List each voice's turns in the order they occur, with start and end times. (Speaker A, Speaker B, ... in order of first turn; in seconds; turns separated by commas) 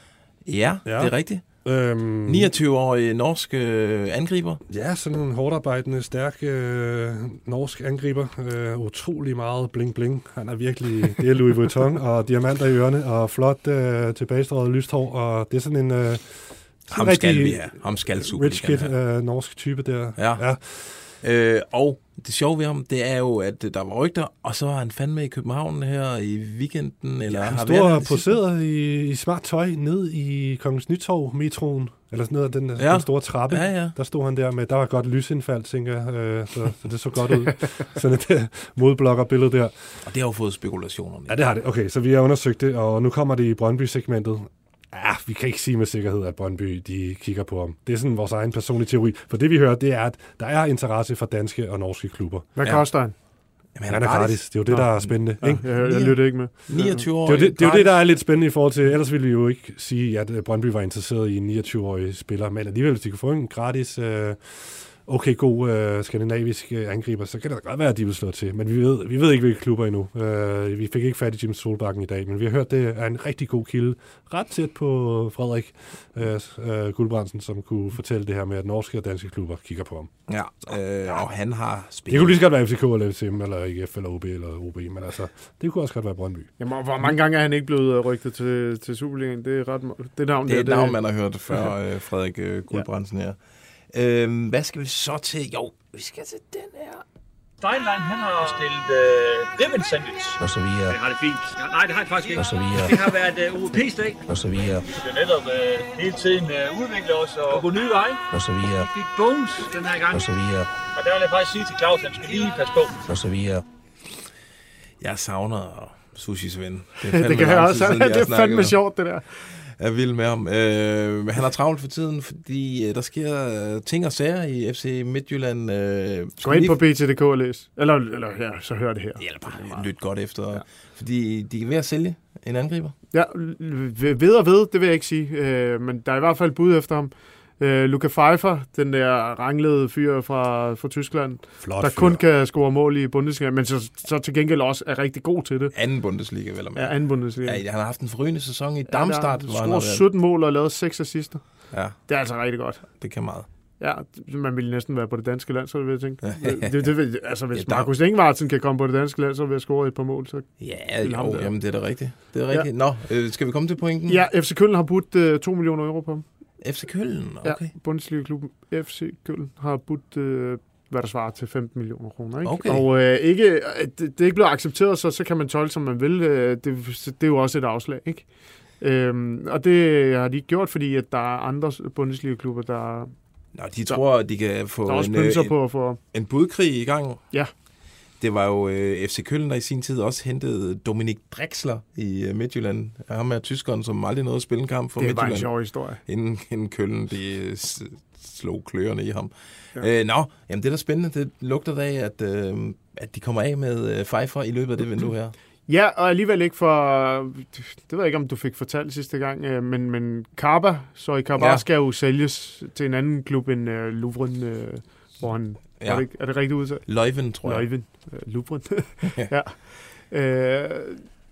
Speaker A: 0.5-1.4, Speaker B: 0.8-2.5, Speaker A: 2.2-4.6, Speaker B: 4.7-20.6, Speaker A: 16.9-18.9, Speaker A: 20.2-28.3, Speaker B: 27.3-40.0, Speaker A: 32.8-34.0, Speaker A: 40.0-41.5, Speaker B: 41.3-52.5, Speaker C: 52.6-53.1, Speaker A: 52.6-53.2, Speaker A: 53.7-58.0, Speaker B: 53.9-55.7, Speaker C: 54.7-57.1, Speaker B: 57.2-80.2, Speaker A: 80.3-82.4, Speaker B: 82.1-86.5, Speaker C: 86.6-91.0, Speaker A: 90.5-93.4, Speaker A: 93.9-97.0, Speaker D: 97.6-100.4, Speaker E: 100.4-101.0, Speaker D: 100.9-104.2, Speaker E: 102.4-103.0, Speaker E: 104.2-104.8, Speaker D: 104.9-108.2, Speaker E: 108.3-108.9, Speaker D: 108.8-110.2, Speaker E: 110.1-110.7, Speaker D: 111.0-113.0, Speaker E: 113.0-113.6, Speaker A: 115.0-118.8, Speaker C: 117.1-119.3, Speaker A: 119.6-126.8, Speaker C: 126.4-130.6, Speaker A: 129.2-133.0, Speaker C: 133.1-145.7, Speaker B: 141.6-142.2, Speaker A: 145.7-150.1, Speaker C: 146.8-147.6, Speaker C: 148.9-153.1, Speaker A: 151.7-152.1, Speaker A: 153.0-153.5, Speaker C: 153.8-161.6, Speaker A: 156.2-156.9, Speaker A: 157.5-157.9, Speaker A: 160.6-164.2, Speaker C: 164.1-166.2, Speaker A: 166.6-167.7, Speaker C: 167.4-183.1, Speaker A: 172.4-172.8, Speaker A: 183.6-187.3, Speaker C: 183.9-186.0, Speaker A: 188.2-205.3, Speaker C: 195.0-196.0, Speaker C: 205.7-221.1, Speaker A: 211.4-211.6, Speaker A: 215.8-217.7, Speaker A: 219.0-219.3